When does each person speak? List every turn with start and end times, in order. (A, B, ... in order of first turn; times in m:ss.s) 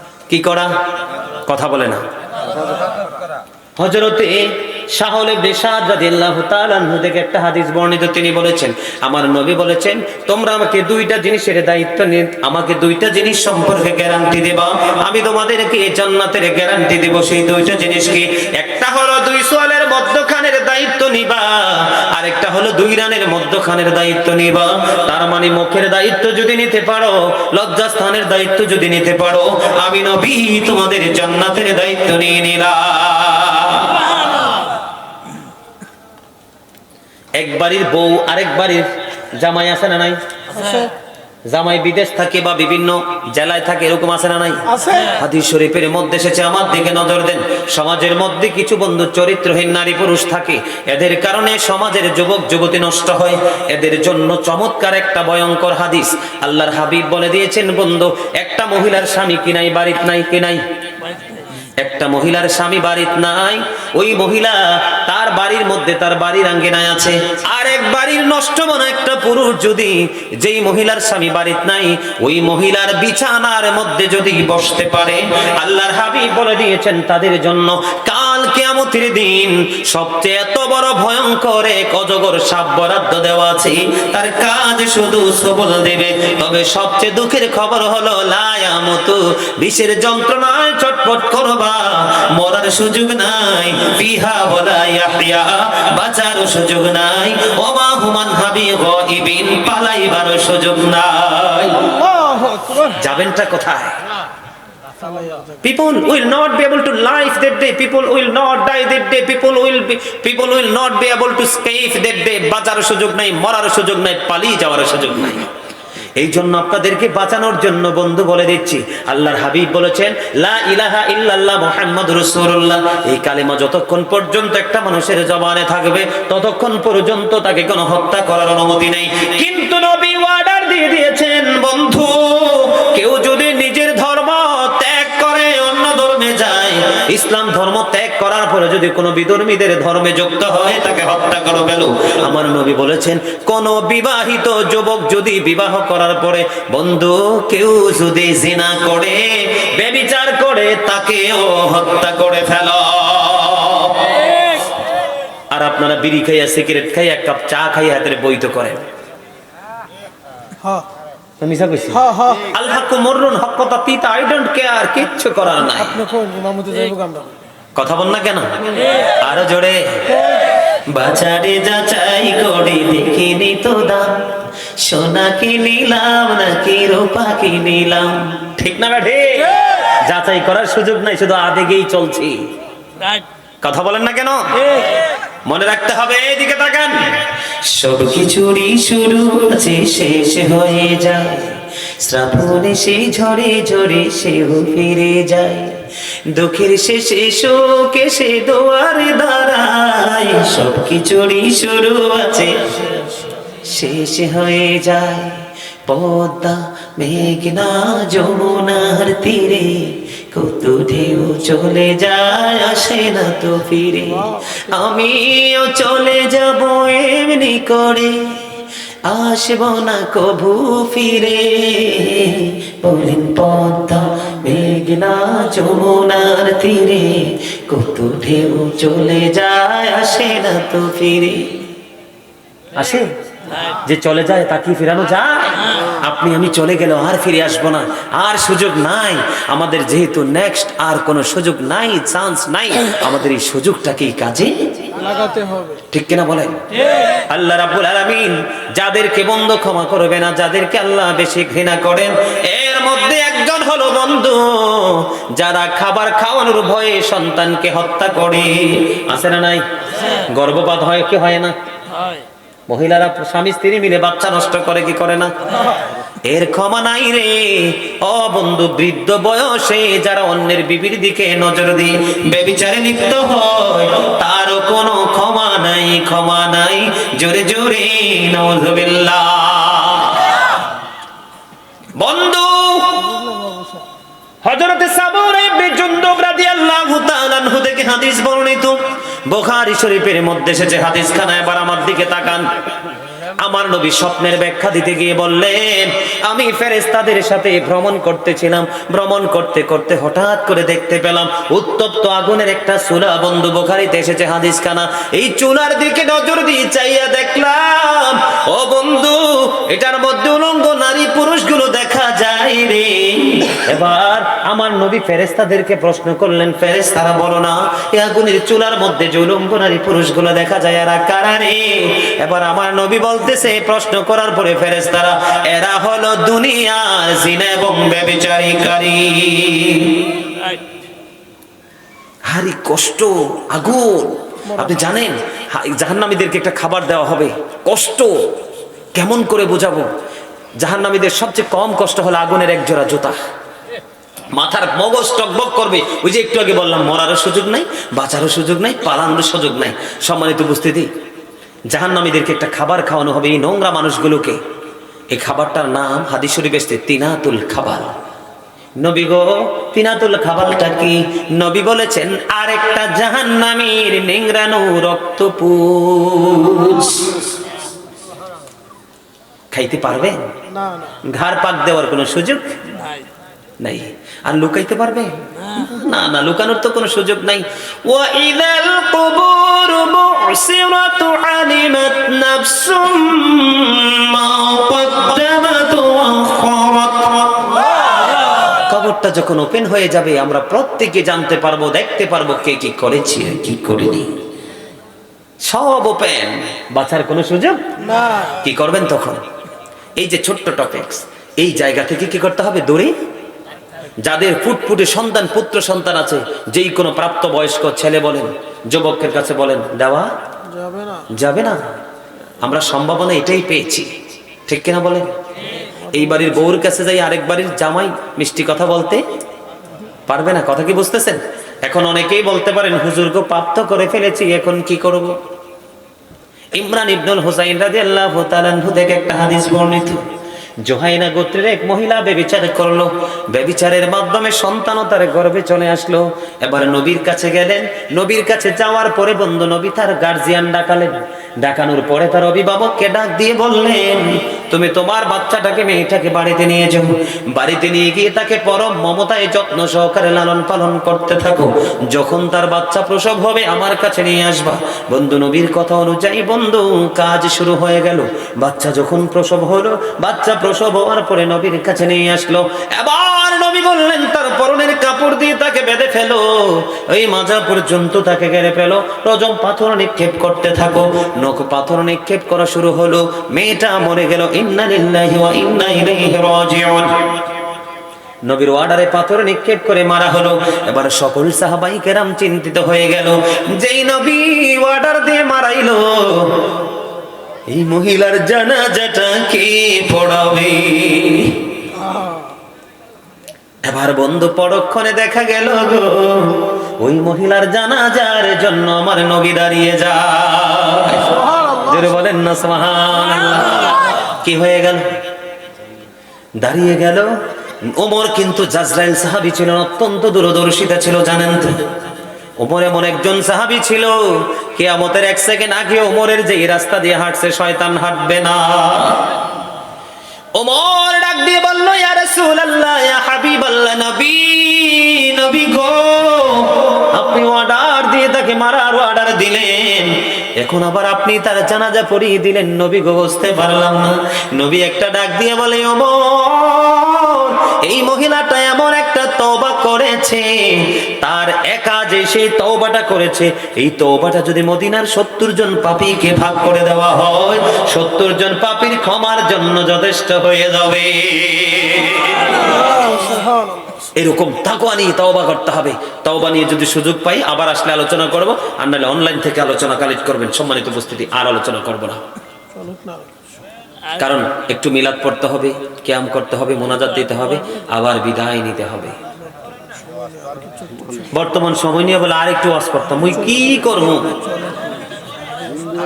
0:00.3-0:00.7 A
0:01.4-0:02.0 A
0:03.8-0:34.1 A
0:37.4-0:40.2 A
0:40.6-0:40.9 B
0:41.5-1:00.6 A
0:44.7-0:45.1 B
1:01.8-1:41.9 A
1:41.9-1:42.9 B
1:42.8-1:44.0 A
1:45.1-1:45.4 B
1:45.6-1:55.5 A
1:56.2-2:34.2 A
2:35.5-2:38.8 A
2:41.4-2:46.0 A
2:42.0-2:42.4 B
2:46.0-2:47.4 B
2:47.8-2:50.2 A
2:50.9-3:02.4 A
3:03.6-3:04.9 A
3:05.5-3:23.0 A
3:23.6-3:51.7 A
3:34.3-3:34.5 B
3:52.8-4:04.9 A
4:05.0-4:05.8 B
4:05.9-4:19.7 A
4:20.2-4:21.5 A
4:22.7-4:25.7 A
4:26.2-4:40.6 A
4:42.0-4:43.1 A
4:43.1-4:43.8 B
4:44.4-4:52.5 A
4:53.4-5:30.1 A
5:32.3-5:38.3 A
5:38.9-5:39.9 A
5:40.6-5:43.2 A
5:44.3-5:50.9 A
5:51.7-5:54.4 A
5:55.1-5:57.9 A
5:58.8-6:07.2 A
6:09.5-6:10.2 A
6:10.6-6:10.9 B
6:11.1-6:12.4 A
6:13.6-6:27.6 A
6:28.7-6:34.1 A
6:35.4-6:37.6 A
6:37.9-6:38.2 B
6:38.3-6:39.2 A
6:40.0-6:43.0 A
6:44.0-6:50.1 A
6:50.5-6:51.1 B
6:51.1-6:51.6 A
6:52.4-6:53.9 A
6:54.5-6:55.1 A
6:55.9-6:59.0 A
7:00.1-7:05.2 A
7:06.5-7:10.0 A
7:10.6-7:57.1 A
7:58.2-8:06.5 A
8:07.5-8:11.5 A
8:11.8-8:12.3 B
8:13.6-8:24.9 A
8:21.2-8:21.7 B
8:26.4-8:27.1 A
8:27.7-8:31.6 A
8:32.4-8:39.1 A
8:40.4-9:12.7 A
9:12.5-9:13.7 B
9:14.0-9:22.0 A
9:22.6-9:23.1 B
9:24.0-9:29.0 A
9:30.2-9:30.9 B
9:31.0-9:34.2 A